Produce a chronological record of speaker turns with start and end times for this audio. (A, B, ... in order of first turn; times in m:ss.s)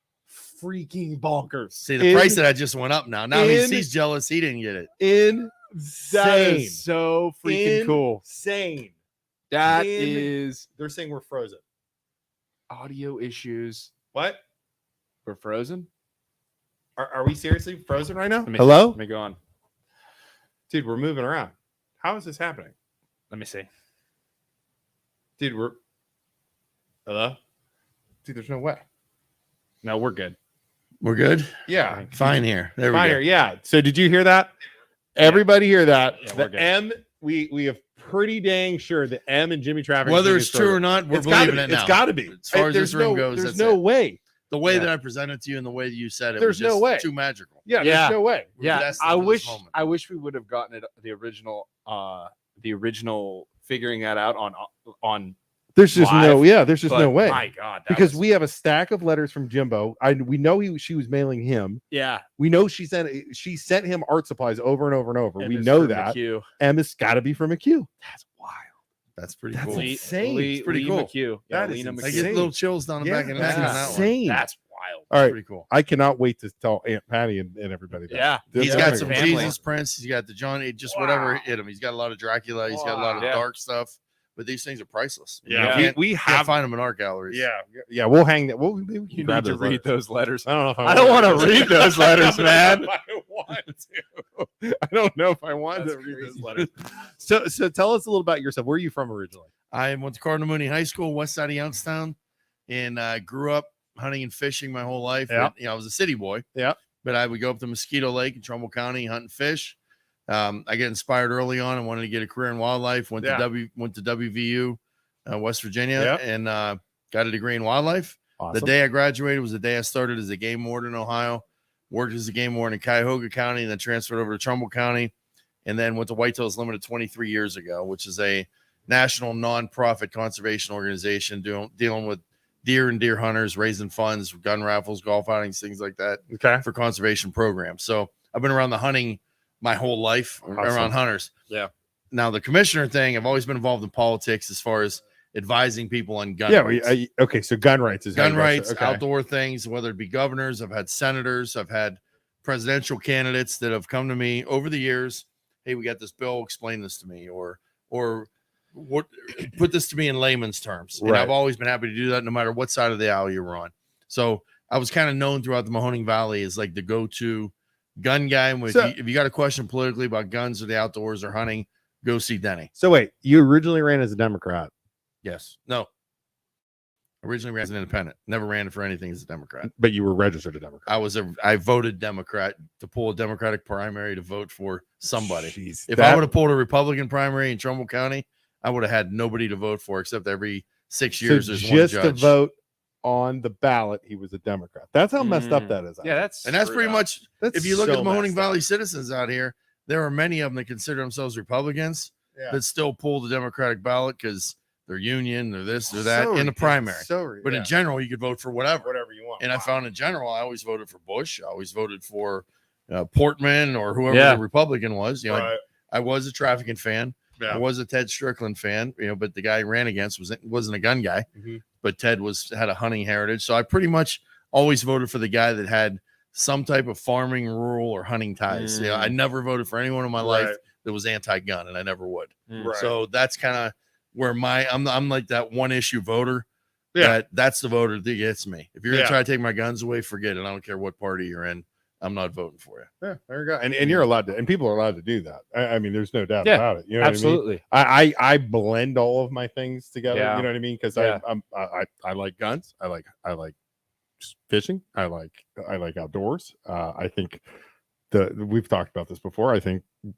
0:00.5-0:01.8 A
0:01.8-0:04.9 B
0:01.9-0:02.4 C
0:03.3-0:03.9 C
0:05.0-0:06.8 C
0:06.0-0:08.2 A
0:07.4-0:08.9 C
0:09.5-0:10.7 A
0:09.6-0:11.6 C
0:12.7-0:13.9 A
0:14.1-0:14.4 C
0:15.2-0:15.9 A
0:17.0-0:19.0 C
0:18.5-0:19.4 A
0:20.7-0:22.7 C
0:23.3-0:23.7 A
0:25.4-0:25.8 C
0:27.1-0:27.4 C
0:28.2-0:28.8 C
0:29.8-0:30.4 A
0:31.0-0:31.5 B
0:31.7-0:34.5 C
0:31.8-0:32.1 A
0:32.1-0:33.2 B
0:35.2-0:44.9 C
0:35.2-0:35.4 A
0:36.2-0:36.7 A
0:40.0-0:43.8 B
0:44.5-0:47.6 B
0:46.4-0:47.1 C
0:47.6-0:48.5 C
0:47.8-0:55.4 A
0:48.6-0:49.7 B
0:55.8-1:01.8 C
0:55.9-0:58.2 A
1:01.9-1:02.2 A
1:02.4-1:07.9 C
1:05.4-1:06.5 A
1:08.0-1:08.7 A
1:09.2-1:10.0 B
1:09.5-1:10.6 C
1:09.7-1:12.4 A
1:10.6-1:11.1 B
1:11.5-1:14.4 C
1:12.0-1:14.1 B
1:13.3-1:15.1 A
1:15.1-1:19.6 C
1:15.2-1:15.7 B
1:18.1-1:19.6 A
1:18.6-1:27.4 B
1:20.9-1:21.4 A
1:22.7-1:23.4 C
1:23.2-1:23.4 A
1:25.4-1:26.5 C
1:25.5-1:25.9 A
1:27.3-1:29.9 C
1:29.1-1:32.9 A
1:30.4-1:39.5 C
1:35.7-1:36.7 A
1:39.7-1:42.2 B
1:42.7-1:46.4 B
1:47.0-1:49.8 B
1:50.3-2:05.1 B
1:53.2-1:53.4 C
1:56.0-1:56.2 C
1:58.4-1:58.7 C
2:05.7-2:21.3 B
2:16.3-2:16.6 C
2:20.6-2:20.9 C
2:22.1-2:26.9 B
2:26.5-2:29.0 C
2:28.1-2:52.7 B
2:41.0-2:41.3 C
2:48.7-2:48.9 C
2:52.8-2:54.7 C
2:55.2-2:55.9 B
2:57.2-2:59.7 B
2:59.6-3:00.9 C
3:00.8-3:12.3 B
3:05.2-3:06.3 C
3:11.2-3:16.3 C
3:15.2-3:17.0 A
3:16.4-3:41.2 B
3:17.4-3:18.6 C
3:25.9-3:27.7 C
3:28.8-3:29.7 C
3:34.1-3:34.4 A
3:35.3-3:35.6 C
3:37.4-3:37.6 C
3:41.4-3:41.6 C
3:41.8-3:56.4 B
3:48.5-3:49.2 A
3:50.2-3:50.6 C
3:52.5-3:52.9 C
3:57.0-4:02.9 B
3:58.9-3:59.2 C
4:03.0-4:13.5 C
4:06.4-4:07.6 A
4:10.1-4:11.2 A
4:14.2-4:17.4 C
4:18.1-4:19.9 C